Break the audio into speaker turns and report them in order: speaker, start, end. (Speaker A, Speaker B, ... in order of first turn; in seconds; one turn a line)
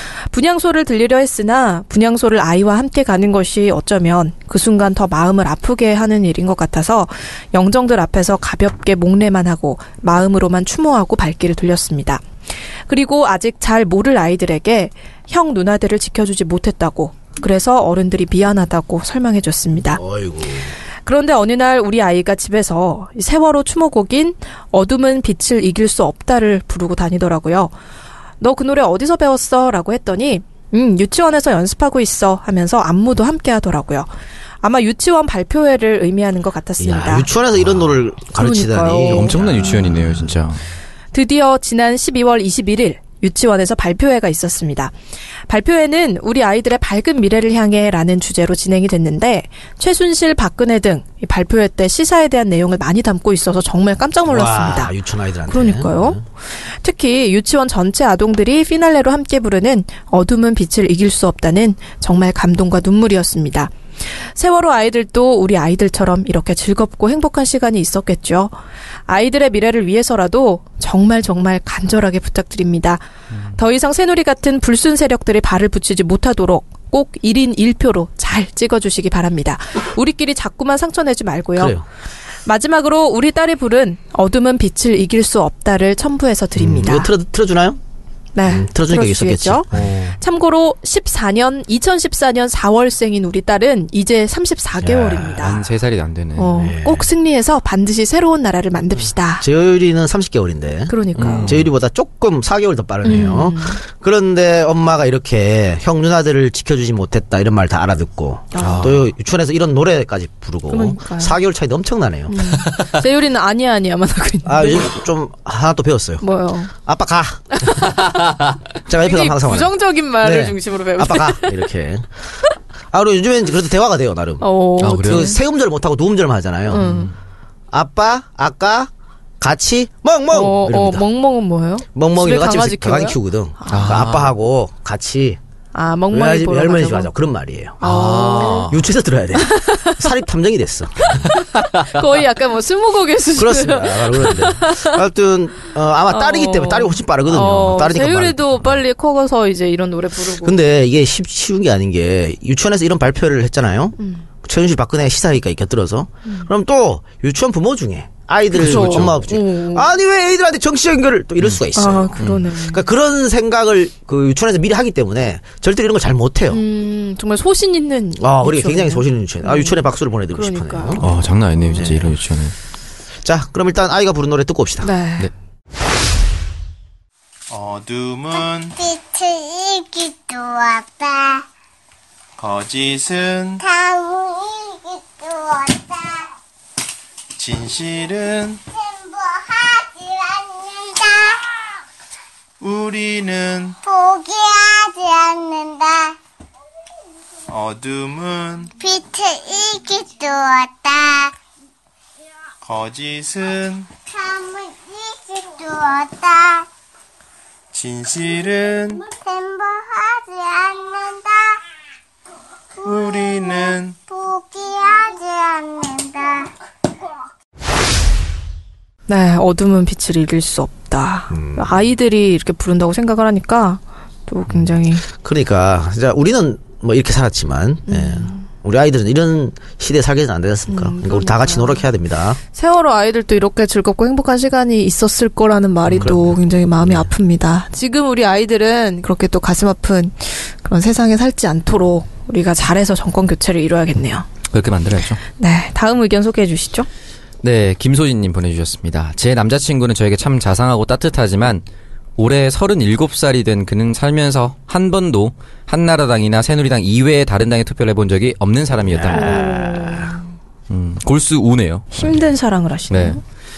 Speaker A: 0.3-12.2
Speaker A: 12.9-20.0
Speaker B: 19.9-20.7
Speaker A: 21.1-27.7
Speaker A: 28.4-34.1
Speaker A: 34.6-37.3
Speaker B: 36.8-40.3
Speaker A: 38.4-39.7
Speaker C: 39.1-40.6
Speaker A: 41.1-44.9
Speaker A: 45.5-54.9
Speaker B: 54.2-56.2
Speaker A: 55.5-68.5
Speaker A: 69.1-73.0
Speaker A: 73.5-81.8
Speaker B: 81.5-81.8
Speaker A: 82.5-87.1
Speaker B: 86.5-87.8
Speaker A: 88.3-89.7
Speaker B: 88.5-89.8
Speaker C: 89.7-90.2
Speaker A: 90.2-95.5
Speaker B: 94.8-95.6
Speaker C: 95.4-96.6
Speaker A: 96.4-99.5
Speaker B: 96.5-97.1
Speaker B: 99.4-112.4
Speaker A: 100.9-101.5
Speaker C: 101.2-101.7
Speaker A: 103.0-103.8
Speaker A: 108.5-108.9
Speaker C: 108.5-109.0
Speaker A: 110.7-111.3
Speaker A: 112.3-115.0
Speaker B: 114.4-116.2
Speaker A: 116.2-116.7
Speaker B: 116.8-117.9
Speaker A: 117.5-118.3
Speaker B: 118.9-122.1
Speaker A: 119.0-121.6
Speaker B: 122.9-124.5
Speaker A: 124.4-125.4
Speaker C: 124.8-125.3
Speaker B: 125.0-126.9
Speaker A: 126.7-127.1
Speaker C: 126.8-127.1
Speaker B: 127.7-131.0
Speaker A: 130.3-133.9
Speaker B: 131.9-135.4
Speaker C: 133.7-134.3
Speaker A: 135.7-137.1
Speaker B: 136.1-141.2
Speaker A: 137.8-138.7
Speaker C: 137.8-138.8
Speaker A: 139.4-140.0
Speaker A: 141.0-145.0
Speaker C: 141.6-141.9
Speaker B: 143.3-148.7
Speaker A: 146.1-150.6
Speaker B: 150.4-166.6
Speaker A: 154.0-154.2
Speaker A: 158.5-159.9
Speaker C: 158.6-159.2
Speaker A: 161.7-162.9
Speaker A: 166.5-171.9
Speaker B: 168.2-171.2
Speaker C: 171.0-172.5
Speaker B: 171.7-172.1
Speaker B: 173.2-174.9
Speaker A: 174.8-175.3
Speaker D: 177.5-178.8
Speaker E: 178.8-181.4
Speaker D: 182.4-183.6
Speaker E: 183.6-186.3
Speaker D: 187.4-188.6
Speaker E: 188.7-191.5
Speaker D: 192.6-193.8
Speaker E: 193.8-196.2
Speaker D: 197.5-198.7
Speaker E: 198.8-201.3
Speaker D: 202.6-203.9
Speaker E: 204.1-206.7
Speaker D: 207.7-209.0
Speaker E: 209.0-211.6
Speaker D: 212.8-214.0
Speaker E: 212.8-216.5
Speaker A: 219.1-225.0
Speaker B: 221.3-221.8
Speaker B: 225.2-232.4
Speaker A: 227.9-228.4
Speaker A: 230.7-231.8
Speaker A: 232.5-244.2
Speaker C: 235.9-236.1
Speaker B: 236.0-236.3
Speaker C: 244.5-245.2
Speaker A: 245.4-246.9
Speaker C: 247.4-251.6
Speaker C: 252.2-259.5
Speaker B: 258.9-260.1
Speaker A: 259.1-260.2
Speaker C: 260.7-262.2
Speaker A: 261.9-263.2
Speaker C: 262.9-263.2